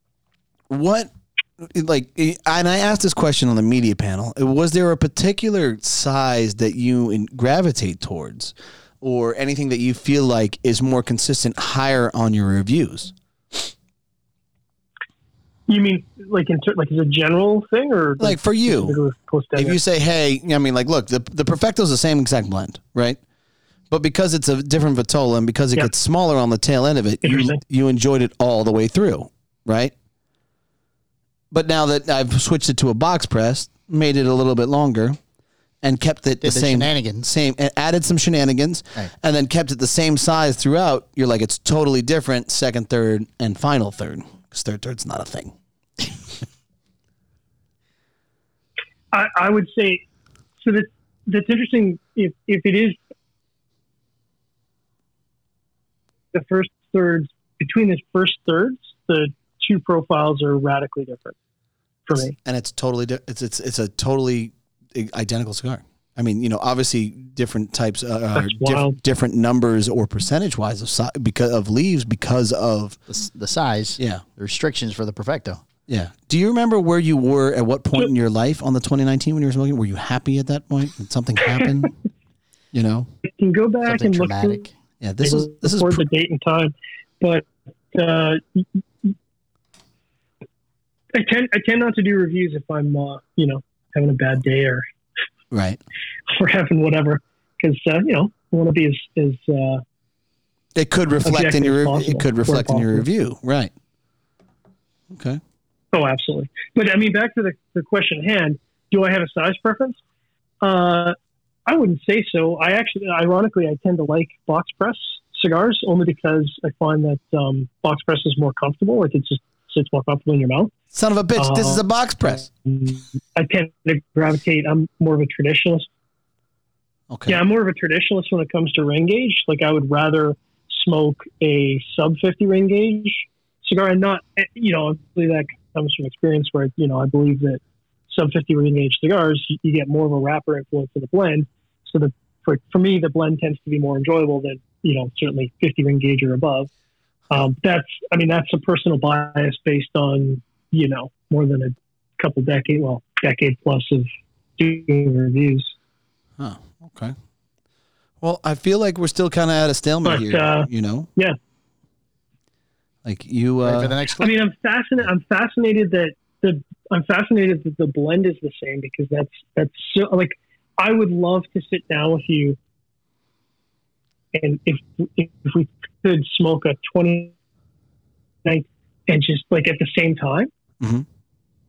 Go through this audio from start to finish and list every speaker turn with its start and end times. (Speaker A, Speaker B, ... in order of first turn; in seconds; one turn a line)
Speaker A: 0.7-13.6
Speaker B: 15.7-19.8
Speaker A: 18.2-19.0
Speaker A: 19.6-23.2
Speaker A: 23.9-29.9
Speaker B: 27.2-27.6
Speaker A: 31.5-35.2
Speaker A: 35.8-45.5
Speaker C: 36.4-37.3
Speaker B: 49.1-50.0
Speaker B: 50.6-53.0
Speaker B: 56.3-61.4
Speaker B: 62.1-62.4
Speaker A: 62.5-73.0
Speaker B: 68.3-69.0
Speaker C: 73.1-75.6
Speaker A: 74.0-74.2
Speaker A: 75.9-81.9
Speaker A: 82.7-83.1
Speaker B: 83.2-84.7
Speaker C: 83.9-84.7
Speaker A: 85.0-86.1
Speaker B: 85.2-89.1
Speaker B: 91.1-94.8
Speaker A: 95.5-95.8
Speaker B: 96.3-99.8
Speaker A: 100.8-103.7
Speaker B: 101.2-103.0
Speaker A: 105.1-105.4
Speaker B: 105.9-110.0
Speaker B: 110.6-120.7
Speaker A: 120.9-122.5
Speaker B: 121.4-121.8
Speaker B: 122.4-125.9
Speaker A: 127.1-127.4
Speaker B: 127.3-146.7
Speaker B: 147.3-155.7
Speaker A: 156.4-157.2
Speaker A: 158.2-161.1
Speaker B: 160.1-161.4
Speaker A: 163.0-163.9
Speaker C: 163.6-164.3
Speaker B: 164.2-172.6
Speaker B: 174.3-177.3
Speaker B: 178.4-180.5
Speaker A: 180.8-181.1